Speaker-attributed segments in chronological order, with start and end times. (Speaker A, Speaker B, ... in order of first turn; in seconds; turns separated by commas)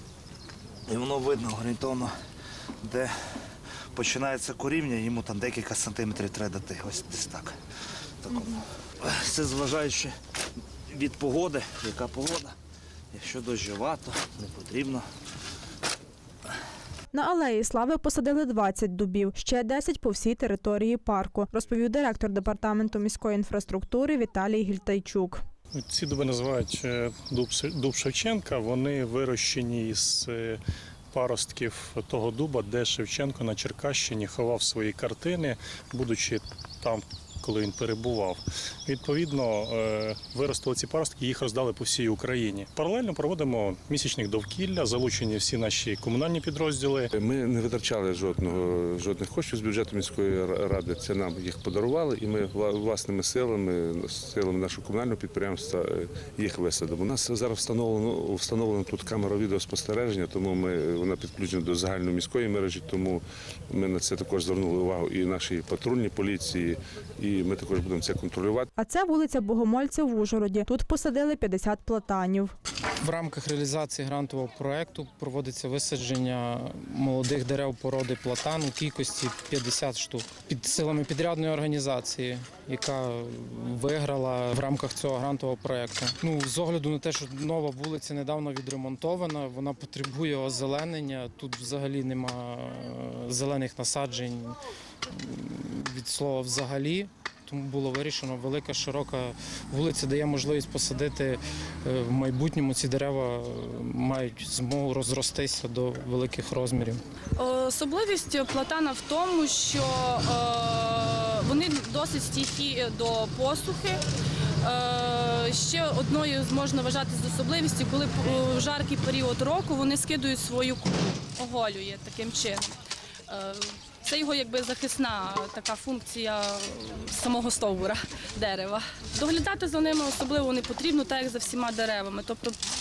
Speaker A: 0.9-2.1, Speaker A: 2.8-3.1, Speaker A: 3.9-7.5, Speaker A: 8.2-10.1, Speaker A: 10.9-12.5, Speaker A: 13.1-15.1, Speaker B: 17.1-25.4, Speaker C: 25.7-47.1, Speaker D: 47.1-68.7, Speaker B: 68.8-72.5, Speaker E: 73.0-94.5, Speaker E: 95.1-107.0, Speaker F: 107.4-114.0, Speaker F: 114.6-132.6